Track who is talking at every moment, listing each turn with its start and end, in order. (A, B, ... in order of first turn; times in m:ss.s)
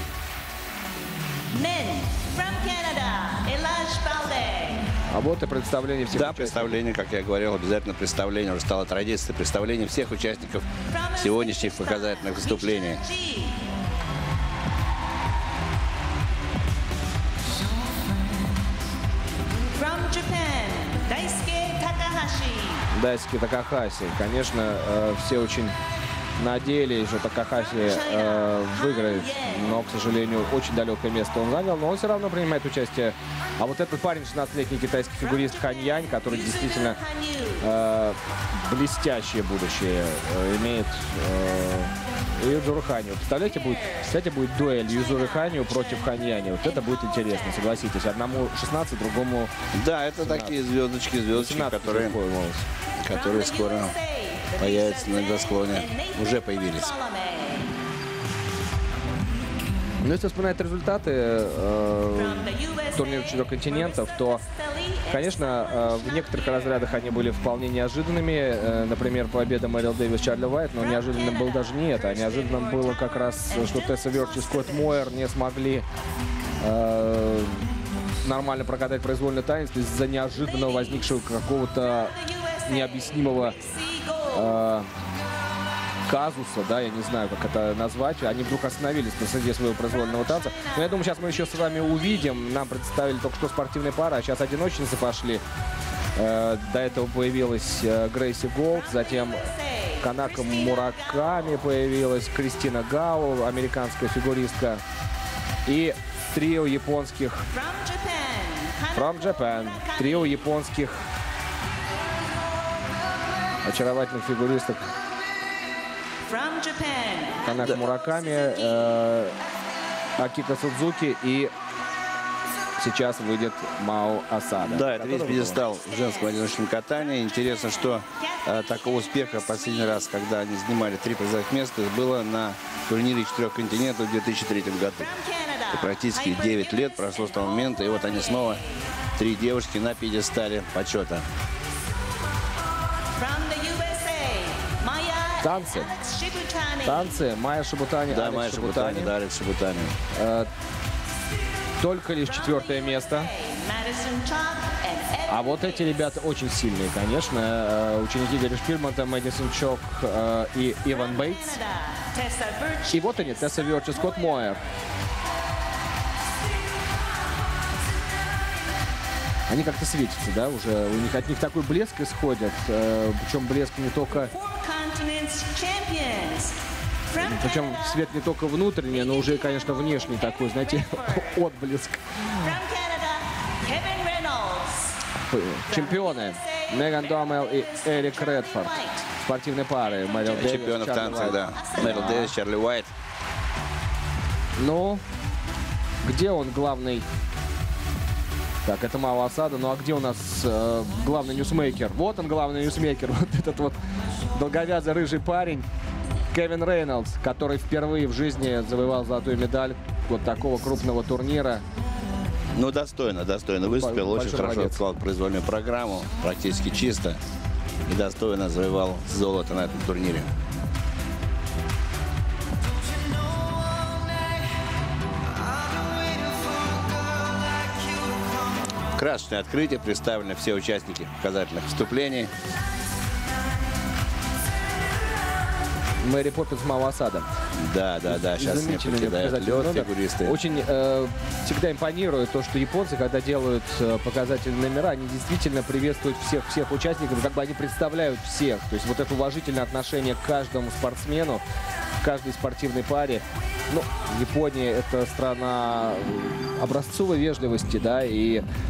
0:01.5-0:04.9 A
0:05.1-0:06.7 B
0:06.1-0:13.0 C
0:10.9-0:13.6 A
0:19.8-0:22.9 A
0:22.9-0:25.8 B
0:26.4-0:37.0 B
0:27.7-0:29.8 A
0:35.2-0:37.7 A
0:37.6-0:49.5 B
0:43.4-0:47.8 A
0:49.7-0:52.2 C
0:50.2-0:50.6 B
0:51.3-0:52.6 B
0:53.0-0:54.0 C
0:53.1-0:57.7 A
0:54.6-0:56.9 C
1:00.0-1:04.4 B
1:02.1-1:06.9 A
1:05.1-1:15.8 B
1:10.8-1:15.1 A
1:16.6-1:17.7 B
1:18.2-1:23.6 B
1:20.4-1:21.2 A
1:21.8-1:24.7 A
1:24.3-1:24.9 B
1:26.1-1:35.4 B
1:29.9-1:31.2 A
1:36.2-1:39.5 B
1:38.7-1:41.6 A
1:40.0-1:44.8 B
1:45.7-1:47.5 B
1:47.5-1:50.5 A
1:48.9-1:51.1 B
1:53.6-1:54.9 B
1:56.2-1:58.8 A
1:57.4-1:59.4 B
2:00.2-2:01.5 B
2:02.8-2:05.6 B
2:04.6-2:15.1 C
2:05.8-2:06.4 A
2:07.9-2:10.1 A
2:15.0-2:18.9 A
2:15.7-2:18.6 C
2:19.2-2:21.3 C
2:23.2-2:27.2 A
2:25.4-2:25.9 B
2:26.8-2:29.2 B
2:28.1-2:30.0 C
2:30.1-2:30.5 B
2:31.8-2:33.3 B
2:32.2-2:36.2 A
2:35.3-2:41.6 B
2:40.9-2:44.6 A
2:42.9-2:44.6 B
2:49.5-2:54.3 B
2:54.1-2:56.6 A
2:57.1-2:58.1 A
2:57.2-3:02.6 B
2:58.9-3:01.4 A
3:02.4-3:05.0 A
3:05.3-3:12.3 B
3:05.7-3:09.1 A
3:09.9-3:10.4 A
3:10.3-3:12.9 C
3:11.5-3:12.2 A
3:14.6-3:15.0 B
3:16.0-3:17.1 B
3:18.6-3:23.8 B
3:24.3-3:25.7 B
3:26.3-3:31.6 B
3:32.5-3:37.2 C
3:33.7-3:34.8 B
3:37.9-3:40.3 C
3:49.0-3:52.3 C
3:56.0-3:57.3 B
3:57.6-4:00.4 C
3:58.1-4:11.4 B
4:12.0-4:18.4 B